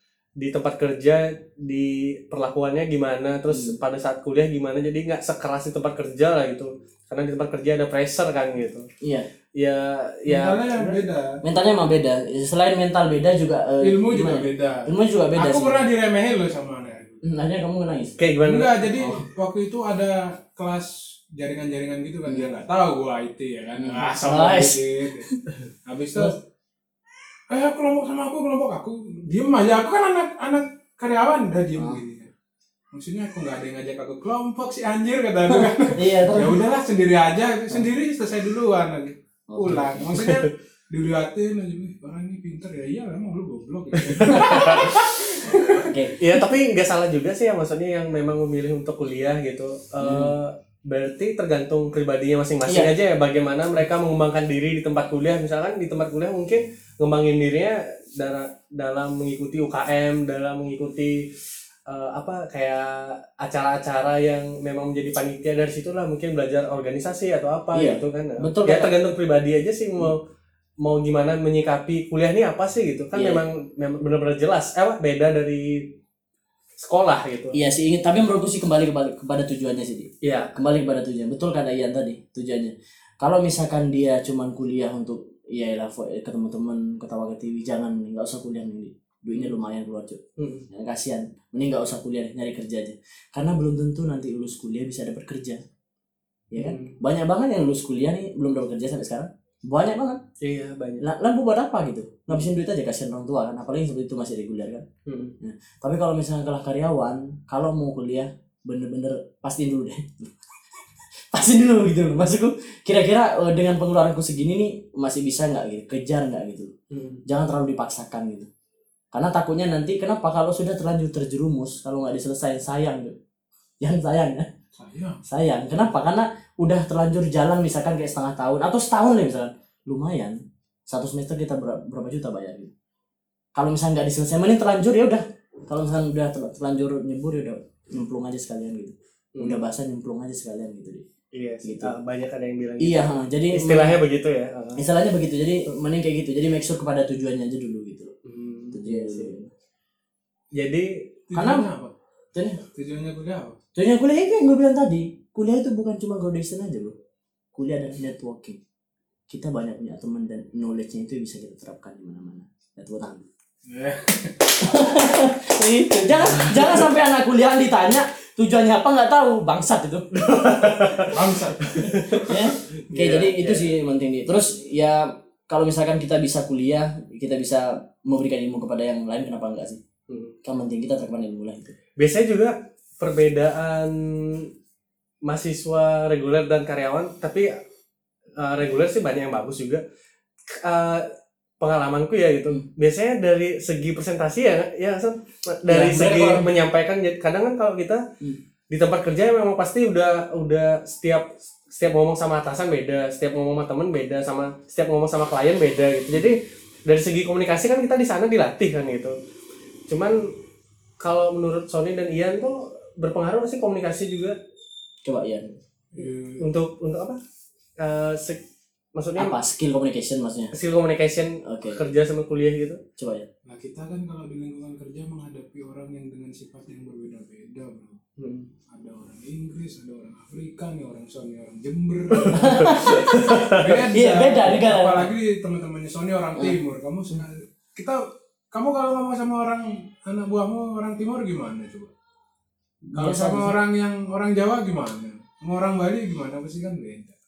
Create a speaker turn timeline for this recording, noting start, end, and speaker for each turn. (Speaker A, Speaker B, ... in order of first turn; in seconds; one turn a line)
Speaker A: 0.4-8.9
Speaker B: 3.5-3.8
Speaker B: 9.0-9.3
Speaker A: 9.6-11.0
Speaker C: 10.3-11.4
Speaker B: 11.4-15.9
Speaker C: 13.8-17.2
Speaker B: 17.2-18.2
Speaker A: 18.2-18.8
Speaker C: 18.5-25.3
Speaker B: 19.0-19.3
Speaker B: 23.8-24.9
Speaker C: 25.9-26.4
Speaker C: 27.5-32.3
Speaker C: 32.9-45.9
Speaker B: 35.6-36.6
Speaker B: 39.5-40.2
Speaker A: 40.2-40.5
Speaker A: 44.0-45.0
Speaker B: 44.3-46.2
Speaker A: 46.2-61.2
Speaker B: 50.0-50.4
Speaker B: 52.7-52.9
Speaker A: 61.9-70.2
Speaker B: 67.7-69.0
Speaker A: 70.8-76.0
Speaker B: 73.1-73.4
Speaker A: 76.8-77.6
Speaker B: 77.5-95.6
Speaker A: 80.2-80.6
Speaker A: 90.4-90.7
Speaker B: 96.5-100.2
Speaker A: 96.6-97.0
Speaker A: 100.4-101.0
Speaker B: 101.0-104.8
Speaker A: 105.1-105.4
Speaker B: 105.4-110.5
Speaker B: 111.3-116.7
Speaker A: 116.9-117.2
Speaker B: 117.3-118.5
Speaker B: 119.1-123.2
Speaker B: 123.8-124.5
Speaker C: 124.8-125.2
Speaker B: 125.3-132.7
Speaker B: 133.6-141.1
Speaker A: 139.3-139.6
Speaker A: 141.3-144.8
Speaker B: 141.6-141.9
Speaker B: 142.8-144.0
Speaker B: 144.8-148.1
Speaker A: 148.2-149.3
Speaker B: 148.7-149.5
Speaker A: 150.6-151.1
Speaker C: 151.3-151.9
Speaker B: 151.3-151.7
Speaker B: 152.3-152.6
Speaker C: 152.7-153.6
Speaker B: 153.8-157.0
Speaker B: 157.5-158.6
Speaker B: 159.3-163.3
Speaker C: 163.7-164.6
Speaker B: 164.6-170.9
Speaker A: 166.3-166.7
Speaker A: 170.2-172.3
Speaker C: 171.0-172.2
Speaker B: 172.1-179.8
Speaker A: 172.9-173.7
Speaker A: 180.1-180.3
Speaker B: 180.4-181.8
Speaker A: 182.0-184.5
Speaker A: 185.2-187.6
Speaker A: 188.4-189.8
Speaker A: 190.6-191.1
Speaker A: 191.6-198.0
Speaker B: 195.7-196.4
Speaker C: 195.9-196.5
Speaker A: 198.7-209.2
Speaker A: 209.9-210.2
Speaker A: 211.0-214.4
Speaker B: 215.0-215.6
Speaker C: 215.9-216.4
Speaker A: 216.4-217.2
Speaker A: 217.8-218.4
Speaker A: 219.0-219.4
Speaker B: 219.2-220.5
Speaker A: 220.5-222.8
Speaker B: 221.4-221.8
Speaker B: 223.0-223.3
Speaker C: 223.5-228.0
Speaker A: 228.2-228.5
Speaker C: 228.7-241.9
Speaker A: 232.2-233.7
Speaker B: 232.3-233.2
Speaker B: 233.9-235.1
Speaker B: 242.9-243.6
Speaker C: 242.9-247.1